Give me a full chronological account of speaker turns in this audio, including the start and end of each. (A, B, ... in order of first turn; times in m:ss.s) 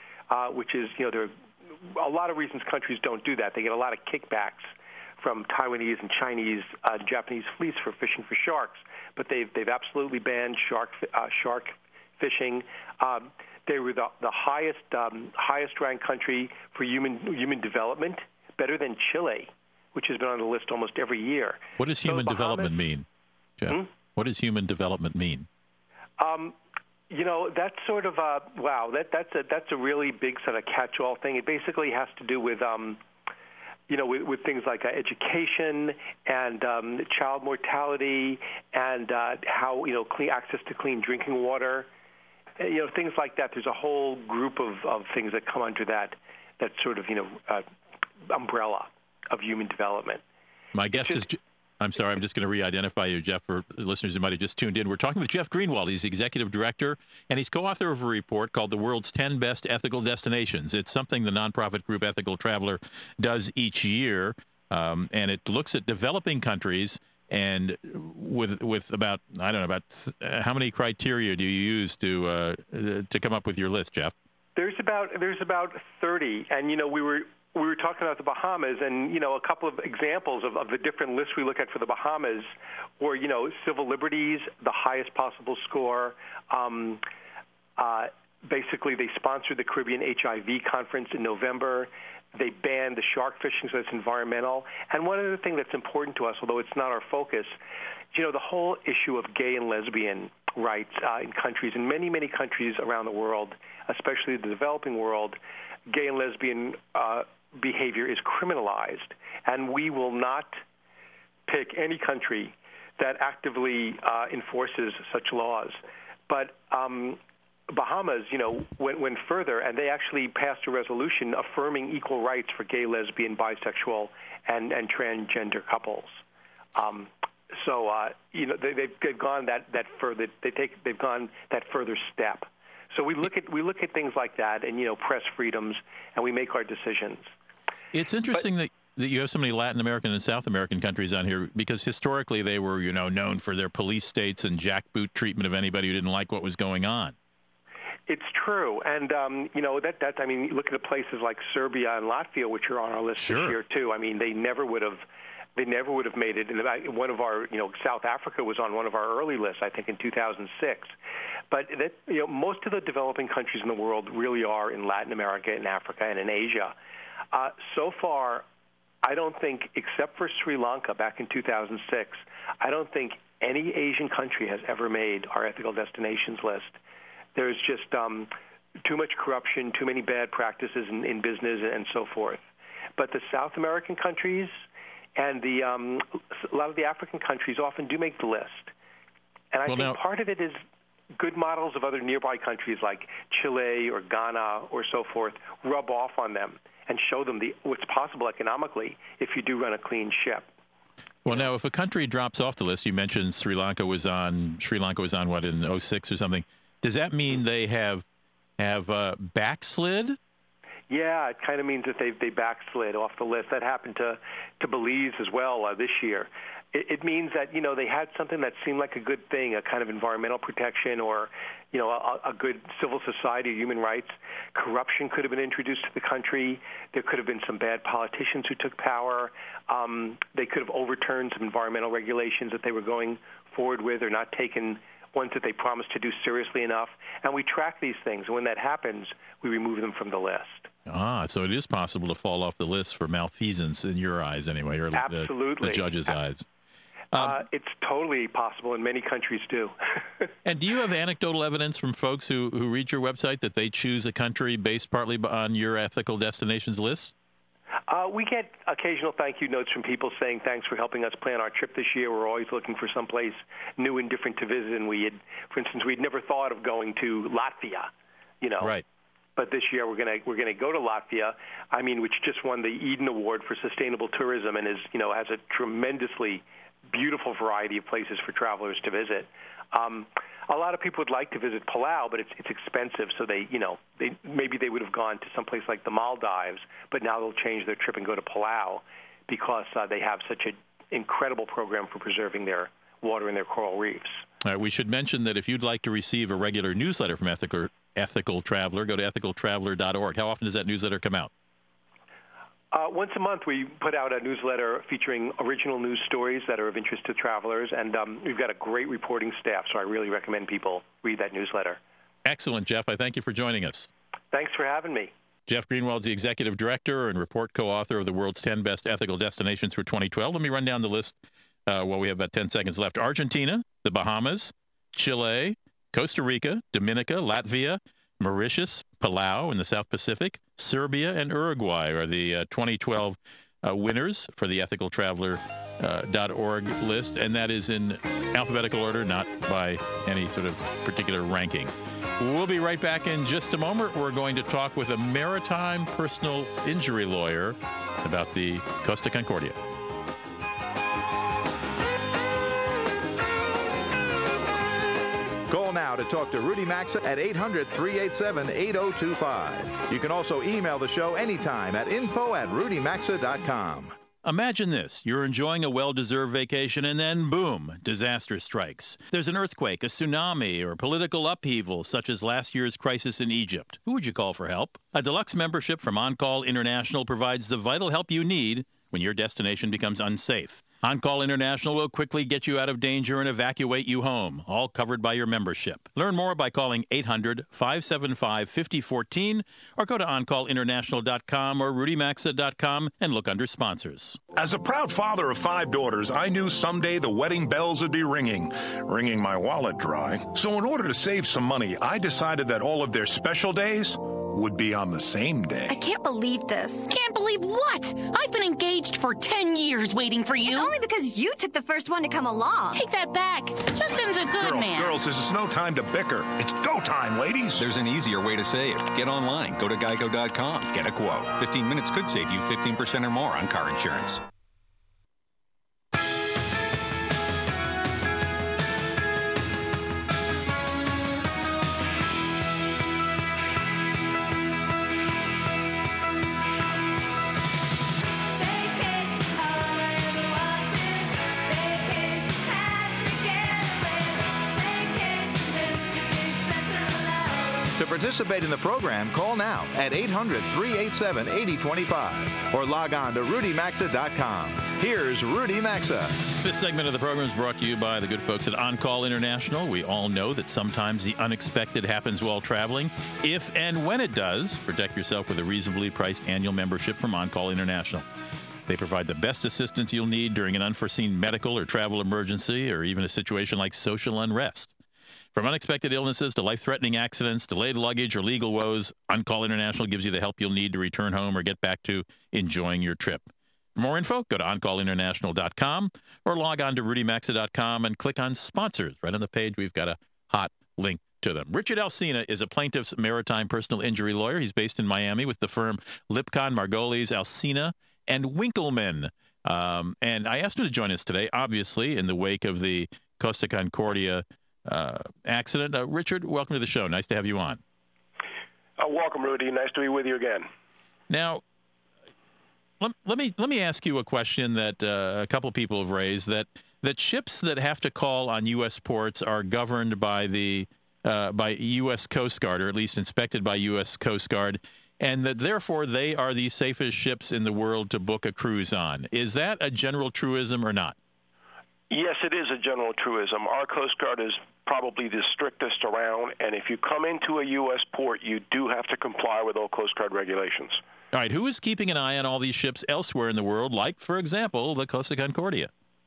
0:00.3-0:01.3 A
0:01.9-0:04.7 A
0:05.2-0:22.8 A
0:21.8-0:23.1 B
0:23.6-0:25.5 B
0:26.2-0:26.6 A
0:27.1-0:33.0 A
0:33.9-0:41.9 A
0:42.6-0:47.7 A
0:48.3-0:50.2 A
0:50.8-1:14.1 B
0:50.9-0:51.3 A
1:14.6-1:27.0 A
1:27.8-1:37.5 A
1:38.1-1:45.4 A
1:45.9-1:50.6 A
1:51.5-1:57.2 A
1:57.7-2:06.2 A
2:06.8-2:17.3 A
2:17.9-2:27.2 B
2:28.1-2:35.0 A
2:33.2-2:33.6 B
2:35.6-2:40.9 A
2:41.5-2:46.7 A
2:47.3-2:48.5 A
2:49.0-2:56.8 A
2:57.4-2:58.3 A
2:58.8-3:02.4 A
3:03.0-3:04.6 A
3:05.2-3:08.7 A
3:09.5-3:10.6 A
3:09.7-3:10.0 B
3:11.2-3:20.5 A
3:21.2-3:28.0 B
3:28.6-3:30.2 B
3:30.9-4:00.7 A
4:00.9-4:06.5 B
4:04.9-4:05.9 A
4:07.1-4:07.4 B
4:07.2-4:09.7 A
4:10.4-4:17.1 B
4:17.9-4:27.9 A
4:28.4-4:28.7 A
4:29.4-4:54.2 A
4:54.4-5:01.3 B
5:02.7-5:11.8 A
5:12.2-5:13.9 B
5:14.3-5:15.1 A
5:15.5-5:49.6 B
5:55.5-6:03.9 C
6:04.2-6:34.2 B
6:34.3-6:45.8 D
6:45.7-6:46.9 E
6:46.9-6:50.7 F
6:50.4-6:52.8 E
6:52.7-6:55.0 F
6:53.7-6:57.6 D
6:57.6-7:04.2 G
7:18.5-7:19.7 E
7:20.3-7:20.9 E
7:21.5-7:23.8 E
7:24.6-7:27.2 E
7:27.8-7:36.2 C
7:36.4-7:48.1 B
7:48.7-7:54.7 B
7:55.3-8:03.2 B
8:03.8-8:27.6 B
8:28.8-8:30.5 H
8:31.1-8:31.4 B
8:32.8-8:51.0 B
8:51.9-9:00.8 H
9:01.1-9:05.7 B